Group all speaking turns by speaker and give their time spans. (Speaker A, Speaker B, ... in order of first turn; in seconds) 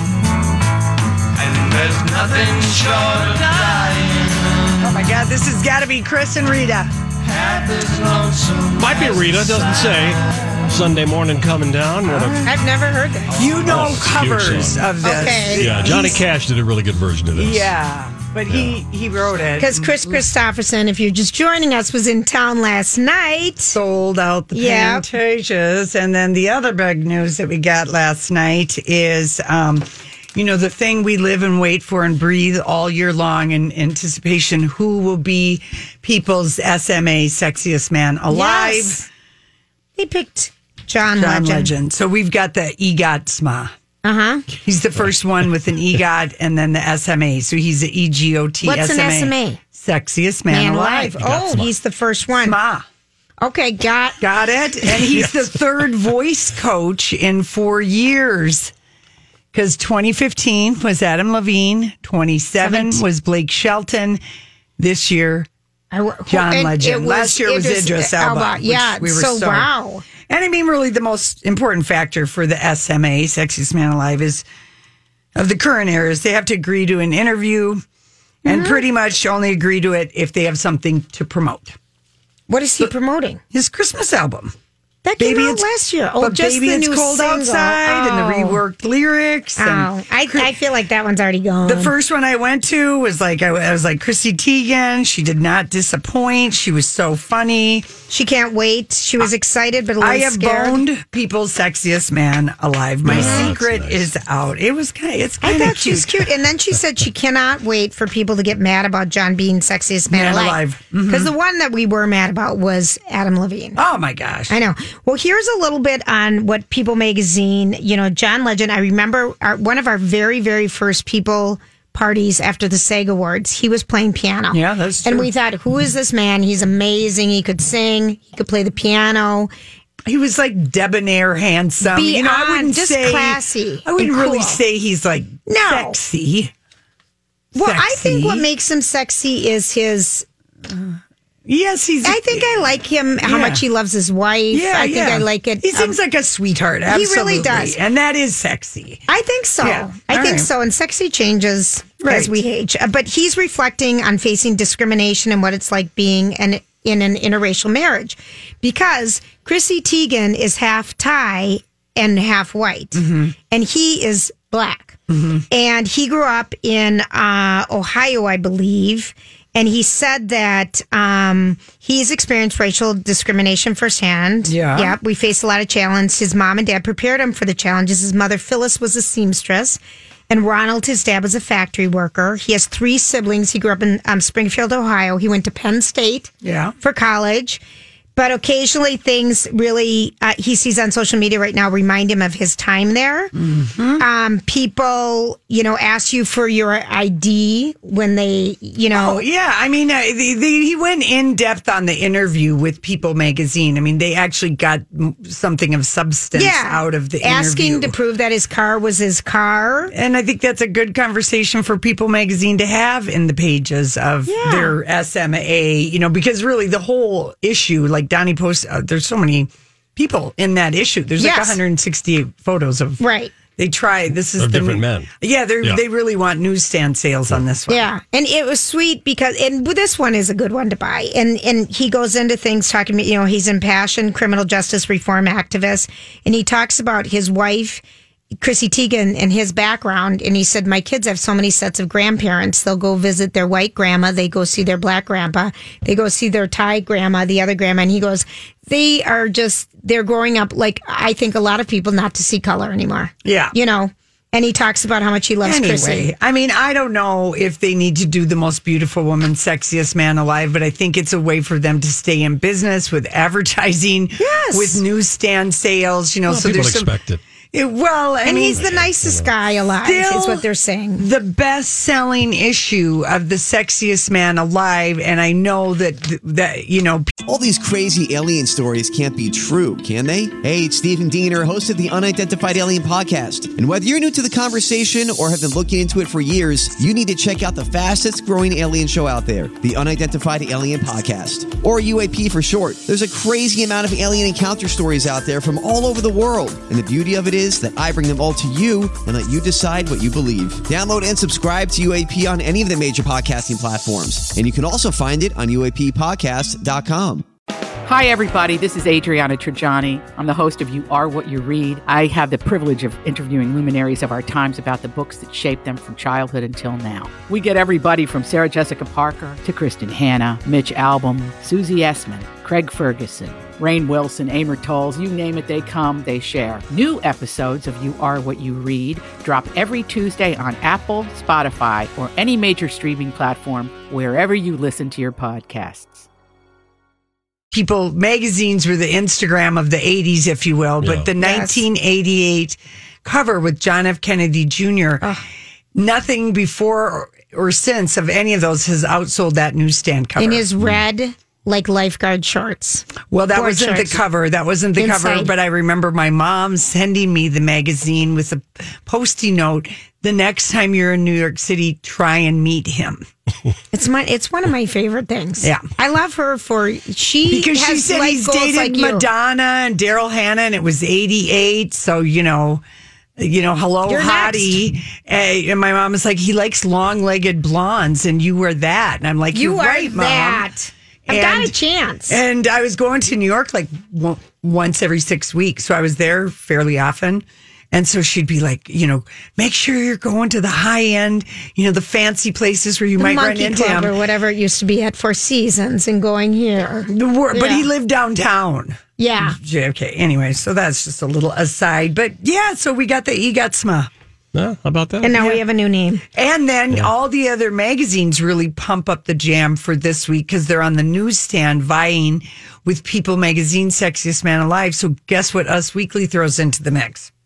Speaker A: 1.4-4.8, 7.2-10.6
Speaker B: 4.8-6.9, 13.3-16.2, 17.3-20.2, 23.7-39.0, 41.1-43.7, 44.6-51.3, 52.4-52.8, 54.2-58.7, 59.5-64.2, 64.8-65.5, 66.3-69.7, 70.2-74.4, 75.3-77.8, 78.4-81.8, 83.5-84.5, 85.2-85.7, 86.2-90.5, 91.6-97.9, 100.0-106.1, 110.1-111.3, 113.7-114.5, 124.5-125.3, 130.1-136.5, 137.6-138.4, 140.7-142.6, 143.2-143.6, 144.5-149.0, 149.6-150.5, 152.0-152.3, 162.9-163.3, 165.1-165.4, 174.4-174.9, 186.4-186.7, 193.3-194.0, 198.9-207.9, 209.9-223.0, 223.6-227.9, 253.2-253.5, 255.4-266.9, 267.5-268.6, 269.8-270.4, 271.0-277.2, 337.5-345.0, 345.7-350.4, 353.1-363.1, 365.4-365.6, 367.3-372.6, 373.2-380.5, 381.1-381.5, 382.1-393.9, 396.9-403.9, 405.1-405.4, 406.1-417.1
Speaker C: 8.7-12.5, 13.6-17.7, 18.5-18.8, 51.2-51.7, 103.0-104.1, 224.4-225.1, 266.3-267.2, 268.5-269.3, 340.8-341.1, 404.3-405.1
Speaker D: 12.4-13.7, 15.0-16.1, 19.6-23.8, 24.5-25.1, 38.3-39.0, 40.0-41.7, 44.0-44.5, 48.6-49.6, 50.5-52.6, 53.4-54.2, 62.6-63.0, 65.9-70.0, 78.5-78.8, 82.5-83.4, 85.0-88.6, 89.6-91.9, 98.1-100.8, 103.1-103.5, 105.4-113.8, 114.5-129.5, 131.8-134.6, 135.4-136.0, 137.5-140.2, 142.0-146.0, 146.9-147.8, 149.1-165.0, 165.5-179.8, 180.3-187.6, 188.2-193.3, 194.0-199.2, 206.3-209.9, 214.3-214.7, 221.2-221.6, 223.0-223.3, 227.7-237.8, 238.4-256.1, 264.2-264.8, 268.2-271.0, 341.2-341.6, 350.2-354.0, 354.8-355.3, 363.7-369.1, 373.9-374.6, 379.3-382.2, 393.0-397.7, 399.0-399.4, 405.0-406.0
Speaker E: 277.2-307.2
Speaker F: 307.8-336.1